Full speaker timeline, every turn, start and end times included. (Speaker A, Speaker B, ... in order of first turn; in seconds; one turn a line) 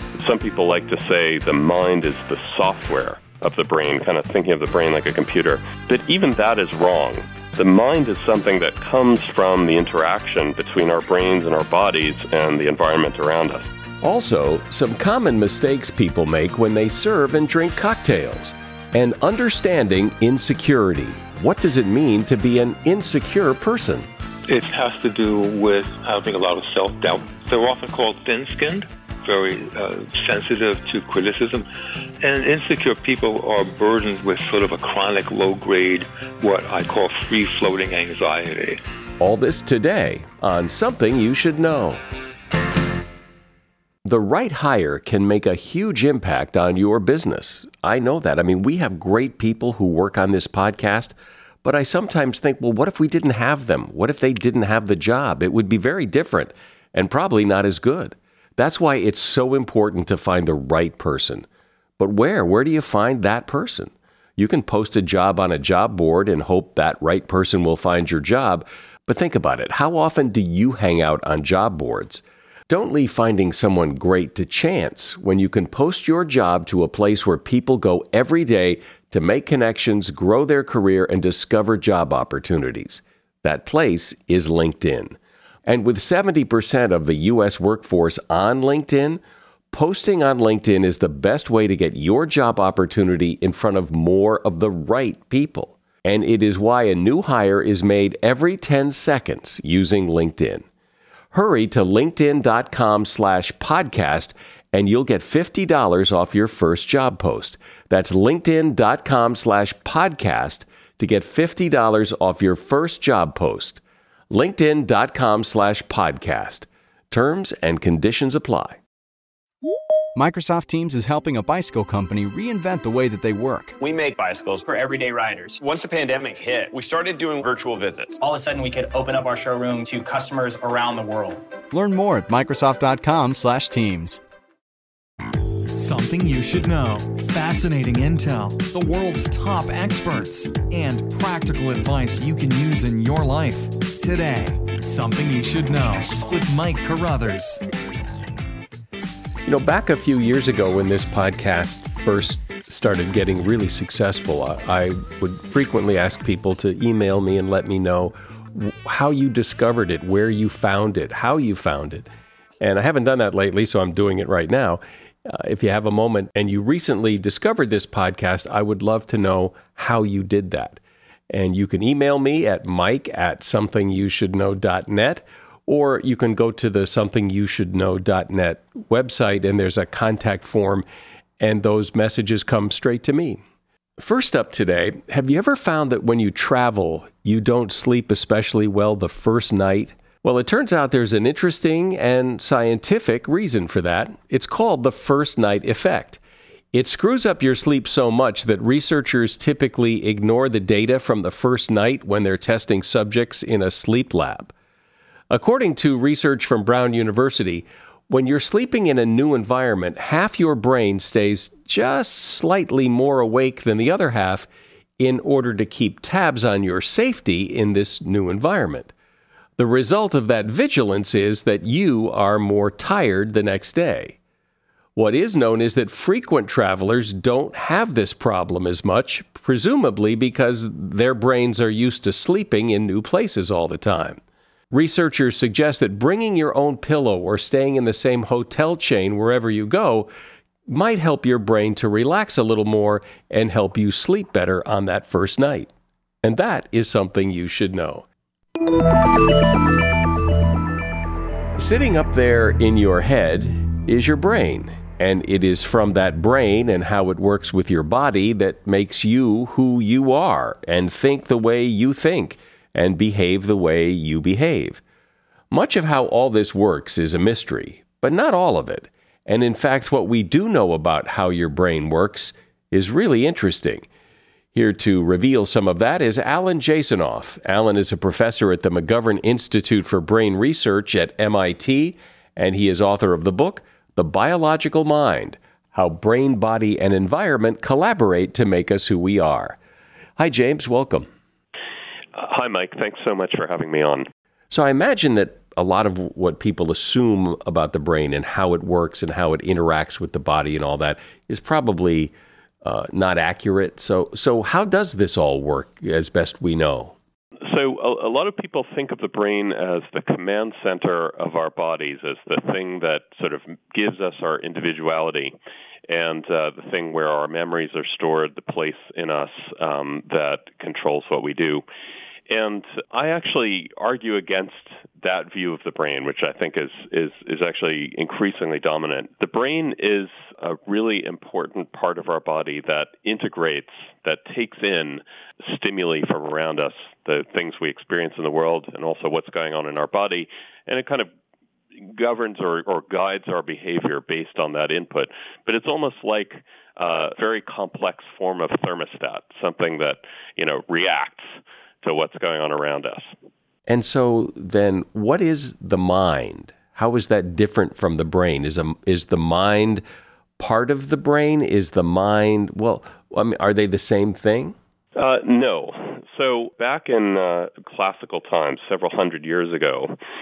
Speaker A: 0.1-13.7
Speaker B: 14.0-24.1
Speaker C: 24.5-31.7
Speaker C: 32.2-38.8
Speaker B: 39.2-42.0
Speaker B: 44.0-61.5
Speaker B: 62.0-89.2
Speaker B: 89.7-100.6
Speaker B: 101.3-118.8
Speaker D: 120.2-123.8
Speaker E: 123.8-124.7
Speaker F: 124.7-125.6
Speaker E: 125.6-128.2
Speaker F: 128.2-131.5
Speaker D: 131.7-134.2
Speaker G: 135.7-147.6
Speaker B: 149.4-162.1
Speaker B: 162.6-180.8
Speaker B: 181.4-183.4
Speaker B: 184.0-196.2
Speaker B: 196.7-204.5
Speaker B: 205.3-214.5
Speaker B: 215.0-218.9
Speaker B: 219.6-224.2
Speaker B: 224.9-234.2
Speaker B: 234.7-240.1
Speaker B: 240.7-245.7
Speaker B: 246.2-248.1
Speaker B: 251.6-264.8
Speaker B: 265.5-273.9
Speaker B: 274.5-289.6
Speaker B: 290.2-291.1
Speaker A: 292.1-294.1
Speaker B: 294.5-306.9
Speaker A: 307.4-315.3
Speaker A: 315.9-321.6
Speaker A: 322.3-341.1
Speaker A: 341.7-353.1
Speaker B: 353.7-359.8
Speaker B: 360.4-364.6
Speaker A: 364.9-369.9